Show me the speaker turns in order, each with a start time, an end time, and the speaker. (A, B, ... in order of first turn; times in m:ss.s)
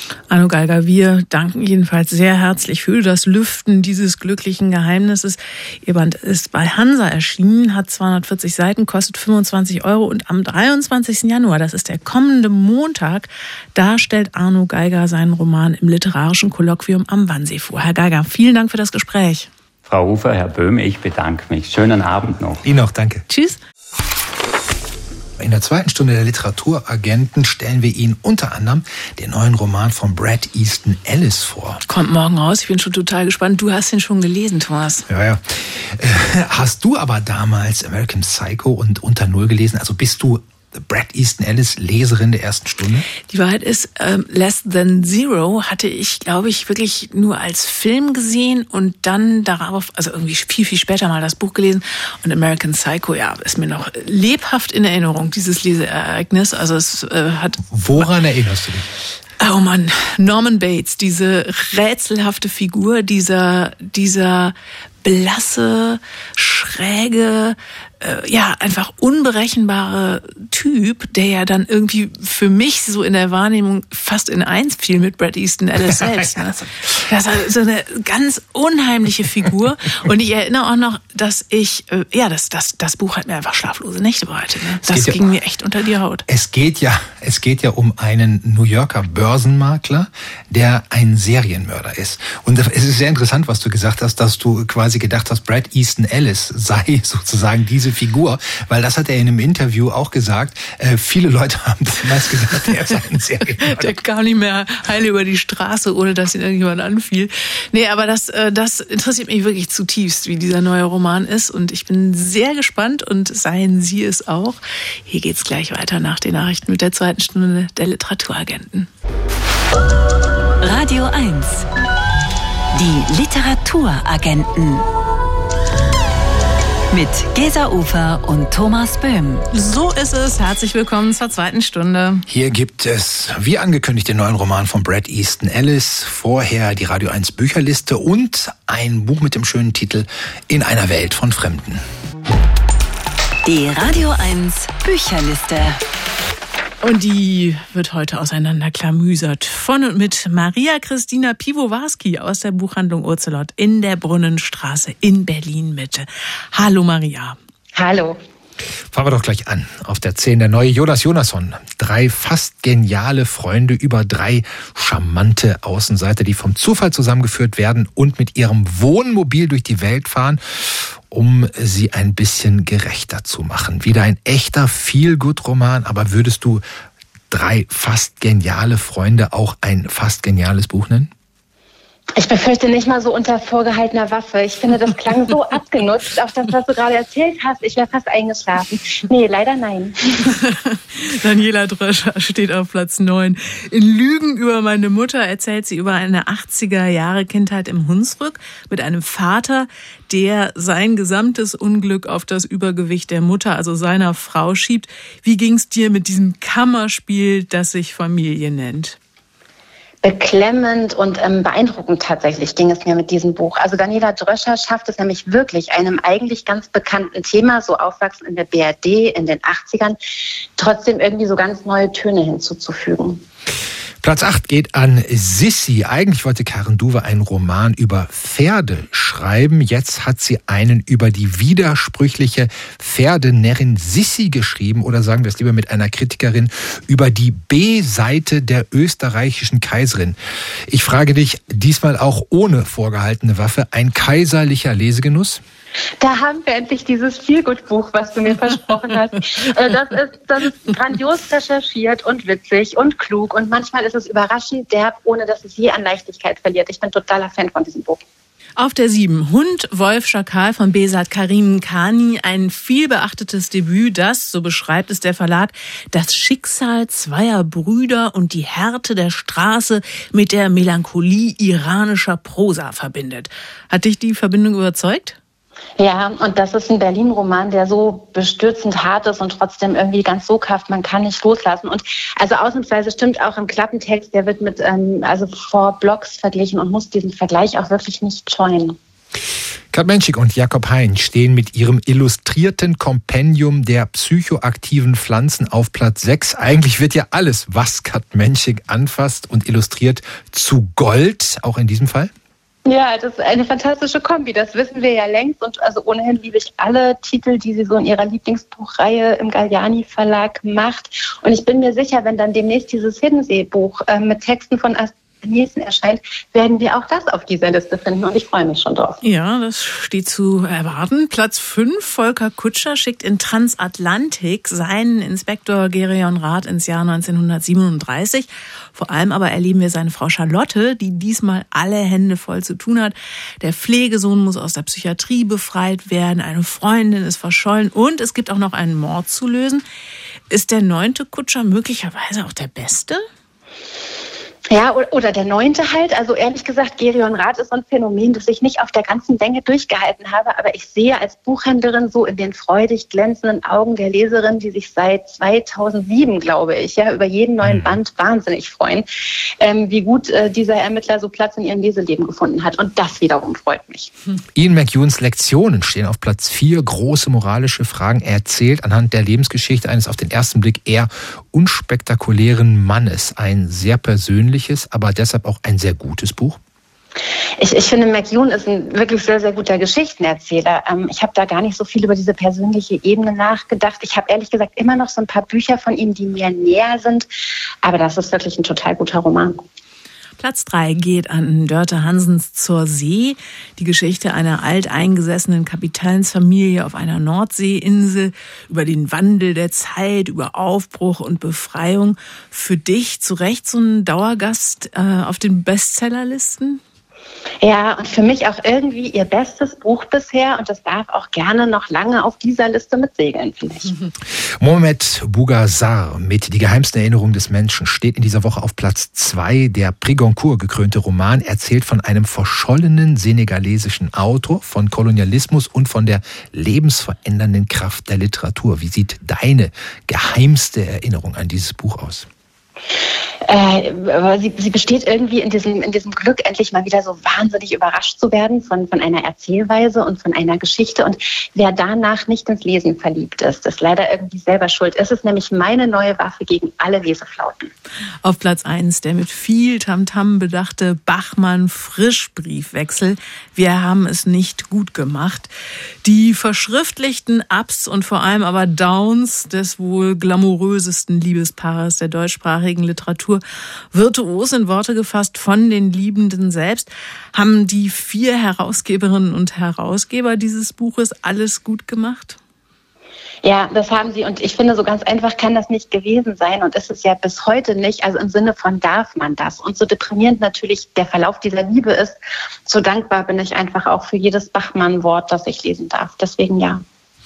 0:00.3-0:19.5 A
0:19.8-0:22.6 B
0:22.6-0:23.2 C
0:23.3-0:23.6 A
0:25.4-0:31.8 C
0:31.9-0:35.1 A
0:35.1-0:43.1 C
0:43.3-0:58.1 A
0:57.7-0:58.9 C
0:59.4-1:26.2 A
1:16.0-1:16.4 C
1:24.8-1:25.2 C
1:26.3-1:43.9 C
1:43.6-1:58.9 A
2:00.6-2:01.7 D
2:02.7-2:04.8 D
2:06.9-2:09.4 D
2:09.5-2:12.2 A
2:12.3-2:21.8 C
2:23.4-2:25.8 D
2:26.8-2:37.4 A
2:37.7-2:38.2 E
2:38.9-2:56.6 C
2:57.3-3:01.1 C
3:02.2-3:10.3 E
3:10.4-3:29.0 A
3:30.0-3:40.0 E
3:40.6-3:43.2 E
3:44.0-4:00.2 C
4:00.7-4:05.4 C
4:06.0-4:18.0 E
4:18.6-4:35.2 A
4:35.8-4:48.8 E
4:49.7-5:02.1 C
5:02.6-5:19.0 E
5:19.0-5:39.6 A
5:40.3-5:43.0 A
5:44.5-6:03.9 E
5:57.4-5:57.8 C
6:04.3-6:16.4 C
6:17.4-6:27.1 E
6:27.6-6:29.4 E
6:30.2-6:46.6 A
6:47.4-6:53.7 E
6:54.4-7:12.1 C
7:13.2-7:27.5 E
7:28.0-7:35.3 A
7:35.8-7:43.2 A
7:43.7-7:52.2 A
7:53.2-8:02.0 E
8:02.5-8:06.6 E